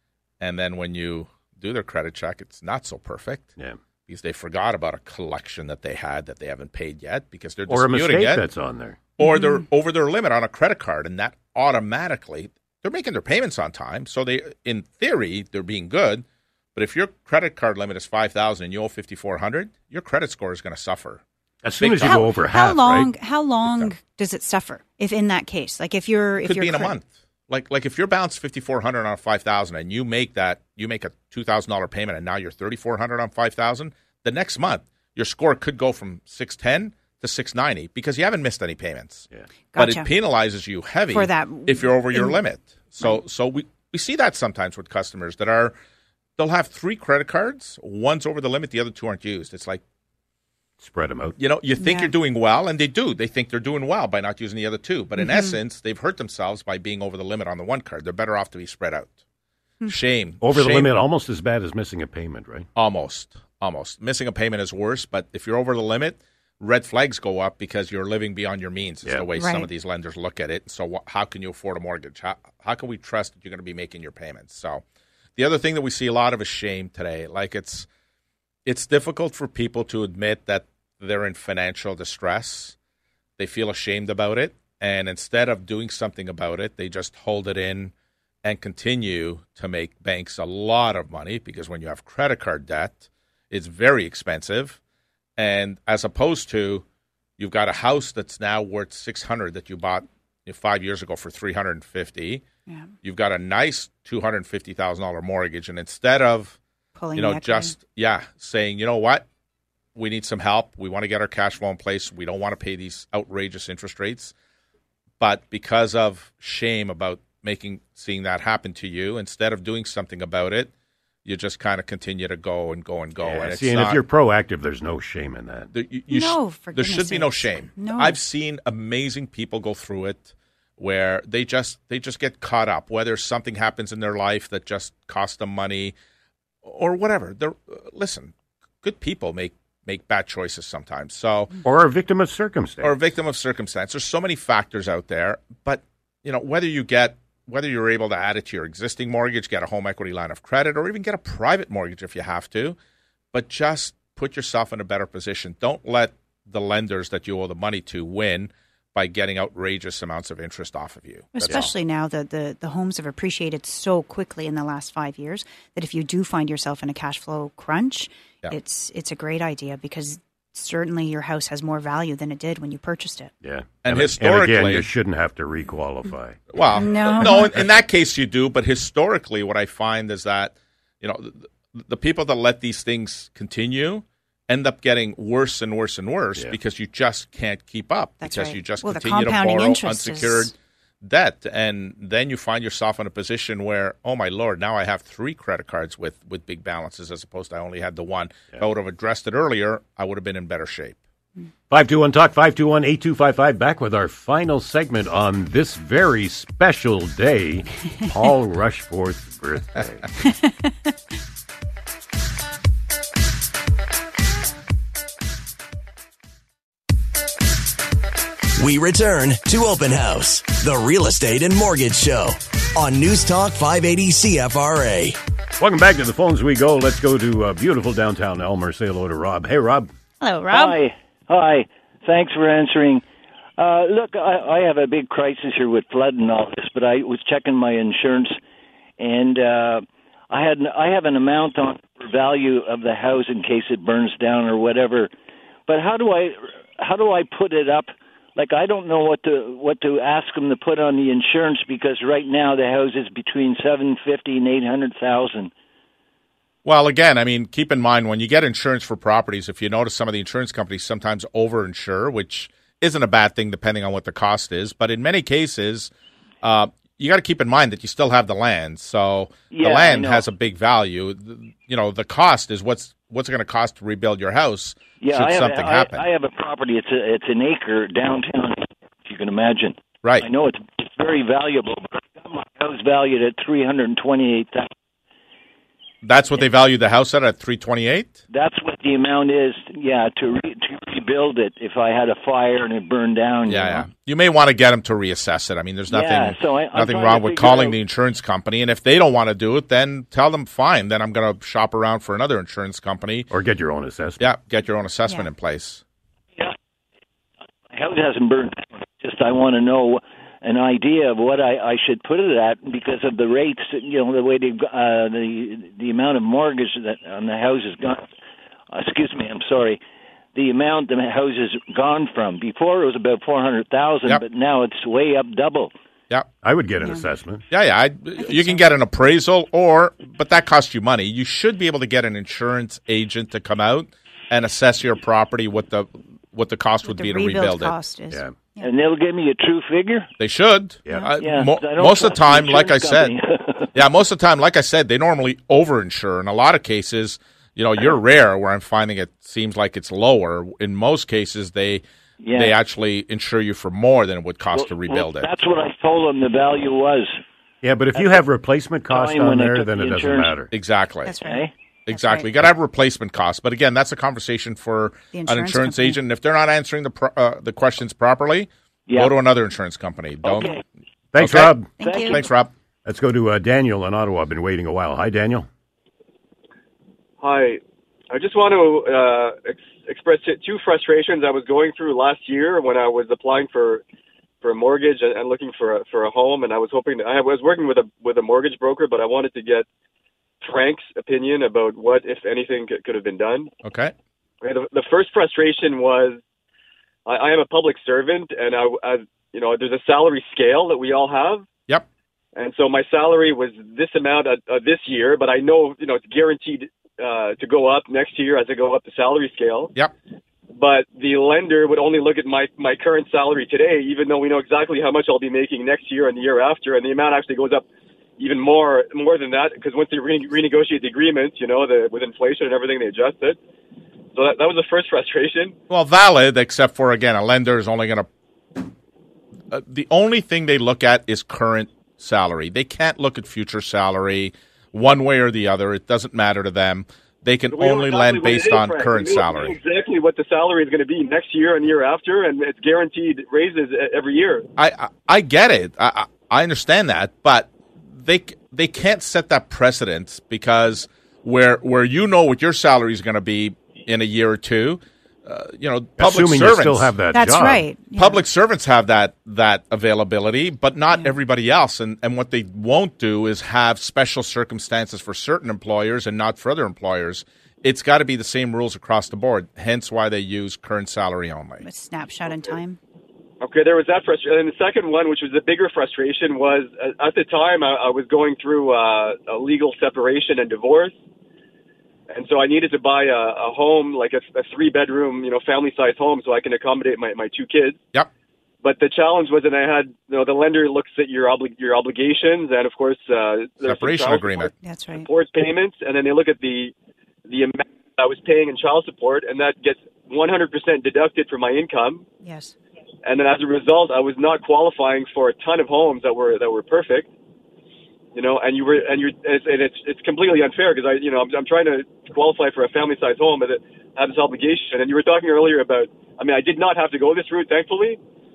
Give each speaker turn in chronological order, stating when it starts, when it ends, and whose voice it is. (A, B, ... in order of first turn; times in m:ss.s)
0:00.4-0:03.5 A
0:04.1-0:08.5 A
0:07.7-0:09.0 B
0:09.2-0:21.2 A
0:09.2-0:09.6 C
0:21.6-0:23.1 B
0:21.8-0:22.2 A
0:22.0-0:27.0 C
0:26.4-0:45.7 A
0:39.7-0:40.1 C
0:41.1-0:42.4 C
0:46.4-0:49.8 A
0:50.8-0:51.4 B
0:51.4-0:59.2 A
0:51.8-0:52.1 C
0:55.2-0:55.6 C
0:59.9-1:00.9 A
1:00.4-1:02.7 B
1:02.8-1:14.8 A
1:09.4-1:09.7 C
1:15.4-1:17.9 A
1:18.7-1:22.8 A
1:23.4-1:27.9 A
1:28.4-1:34.8 A
1:35.4-1:36.8 A
1:37.4-1:42.4 A
1:43.0-1:46.6 A
1:47.0-1:47.7 C
1:47.2-1:49.2 A
1:50.0-1:54.3 A
1:55.2-2:00.7 A
2:01.2-2:04.0 A
2:03.2-2:05.7 B
2:05.7-2:15.9 A
2:06.1-2:08.2 C
2:16.6-2:21.5 A
2:21.6-2:23.0 B
2:22.8-2:32.8 A
2:33.3-2:41.7 A
2:41.3-2:53.3 C
2:53.4-2:56.4 B
2:53.8-2:54.9 A
2:56.5-3:21.0 A
2:56.8-2:57.5 C
2:57.3-2:57.6 B
3:08.2-3:10.5 C
3:21.7-3:30.1 B
3:38.6-3:45.2 D
3:45.6-3:49.9 B
3:50.2-3:50.8 C
3:50.5-3:53.0 E
3:53.6-3:58.4 E
3:59.0-4:05.1 E
4:05.7-4:15.5 E
4:16.6-4:25.9 A
4:26.4-4:36.0 A
4:29.5-4:30.3 E
4:35.0-4:44.7 E
4:46.0-4:48.2 A
4:48.3-4:53.9 E
4:53.5-5:03.3 A
4:55.9-4:57.8 E
5:03.3-5:04.2 B
5:04.2-5:05.8 A
5:07.7-5:18.1 E
5:18.7-5:19.8 E
5:20.4-5:25.7 E
5:26.4-5:27.4 B
5:27.5-5:37.8 A
5:28.2-5:28.6 C
5:36.8-5:38.7 C
5:38.6-5:40.1 E
5:40.2-5:43.1 A
5:41.2-5:43.8 E
5:43.8-5:51.8 A
5:52.2-5:52.6 E
5:52.4-5:55.3 A
5:54.5-5:57.2 E
5:57.6-6:00.5 B
5:58.0-5:58.2 E
5:58.9-6:00.4 E
6:00.5-6:01.2 A
6:01.1-6:02.3 C
6:01.2-6:01.5 E
6:01.9-6:10.6 A
6:05.1-6:06.0 C
6:08.9-6:09.2 E
6:10.2-6:10.6 E
6:11.1-6:11.7 B
6:11.2-6:12.5 A
6:11.8-6:12.2 C
6:11.8-6:12.2 E
6:12.8-6:15.5 B
6:17.2-6:23.8 F
6:24.4-6:29.7 F
6:30.4-6:33.5 F
6:33.6-6:33.9 A
6:34.4-6:36.2 F
6:37.1-6:41.5 F
6:42.4-6:49.7 F
6:50.5-6:57.7 F
6:58.2-7:03.4 F
7:04.1-7:05.6 F
7:05.7-7:08.1 A
7:09.5-7:19.6 A
7:17.5-7:24.5 F
7:24.6-7:36.9 A
7:36.0-7:37.7 B
7:37.1-7:38.2 C
7:38.0-7:51.6 A
7:51.6-7:52.8 C
7:53.4-8:00.9 F
8:02.1-8:07.8 F
8:08.6-8:16.7 F
8:13.6-8:14.5 A
8:14.6-8:15.1 C
8:17.3-8:22.0 F
8:22.2-8:22.6 C
8:23.0-8:27.1 F
8:28.1-8:38.0 F